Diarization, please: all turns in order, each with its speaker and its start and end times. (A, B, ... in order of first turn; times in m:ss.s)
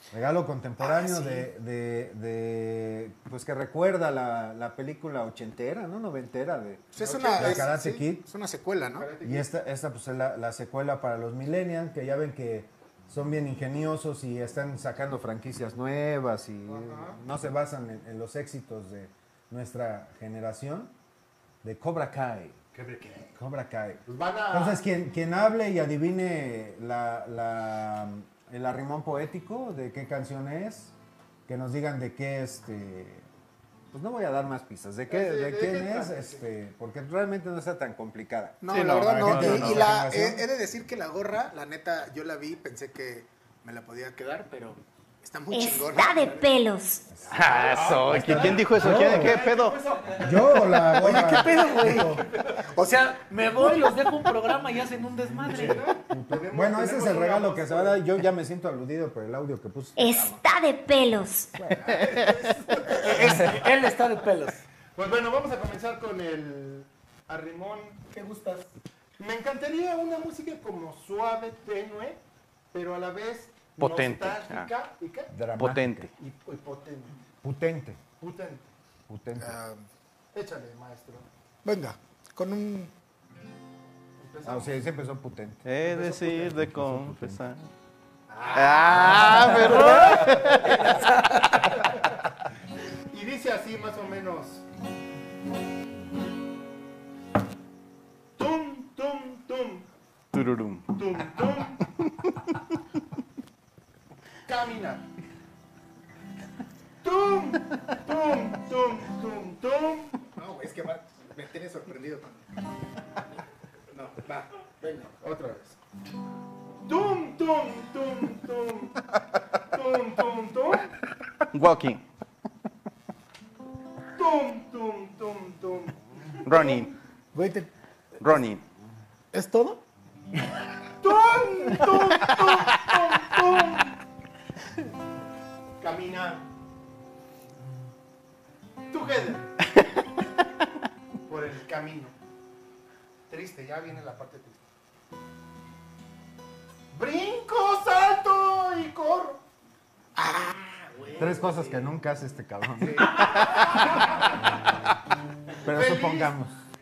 0:00.1-0:08.3 A
0:00.8-0:01.5 B
0:06.9-0:09.1 B
0:07.0-0:07.7 C
0:09.0-0:09.5 C
0:09.2-0:20.9 A
0:16.7-0:17.2 C
0:21.6-0:22.6 A
0:22.7-0:23.3 C
0:23.4-0:30.9 A
0:24.1-0:24.8 C
0:31.5-0:33.3 A
0:33.9-0:40.4 A
0:35.1-0:36.4 C
0:38.6-0:44.3 B
0:38.7-0:39.9 D
0:44.2-0:44.8 E
0:45.2-0:46.4 B
0:45.5-0:47.1 F
0:47.3-0:52.8 C
0:47.3-0:49.8 D
0:48.1-0:49.4 A
0:50.2-0:52.2 A
0:51.0-0:52.2 E
0:51.0-0:52.1 B
0:52.8-0:55.9 E
0:55.2-1:00.4 A
0:55.5-0:58.0 C
1:00.0-1:01.6 F
1:01.7-1:03.8 C
1:01.7-1:02.5 D
1:02.9-1:04.6 E
1:05.0-1:08.0 C
1:08.1-1:08.7 E
1:09.2-1:12.2 C
1:12.7-1:15.3 C
1:13.8-1:14.7 D
1:15.3-1:16.1 A
1:15.6-1:16.1 D
1:16.2-1:17.2 C
1:17.4-1:18.0 A
1:18.2-1:18.7 C
1:19.1-1:19.6 A
1:19.4-1:19.8 B
1:20.3-1:21.3 C
1:21.6-1:22.9 B
1:24.2-1:24.8 C
1:24.4-1:27.4 A
1:25.6-1:27.7 D
1:25.9-1:26.3 C
1:28.5-1:31.0 D
1:28.9-1:31.8 E
1:28.9-1:31.0 C
1:33.1-1:34.6 C
1:38.4-1:39.9 C
1:40.3-1:40.9 D
1:40.9-1:41.8 C
1:42.0-1:42.5 D
1:44.5-1:45.0 C
1:47.0-1:50.2 C
1:50.4-1:52.4 B
1:54.2-1:55.2 E
1:55.2-1:55.8 C
1:56.8-1:59.0 C
1:59.7-2:00.9 C
2:01.5-2:02.0 D
2:04.2-2:06.9 C
2:06.4-2:06.9 D
2:07.4-2:07.7 E
2:08.2-2:08.6 D
2:09.3-2:09.8 E
2:11.0-2:13.9 C
2:15.8-2:16.5 C
2:18.9-2:19.5 C
2:21.3-2:22.2 C
2:23.3-2:24.6 C
2:26.9-2:29.4 C
2:30.2-2:30.5 B
2:30.4-2:31.8 E
2:31.2-2:33.7 A
2:33.2-2:34.2 C
2:35.6-2:36.6 A
2:35.7-2:36.3 C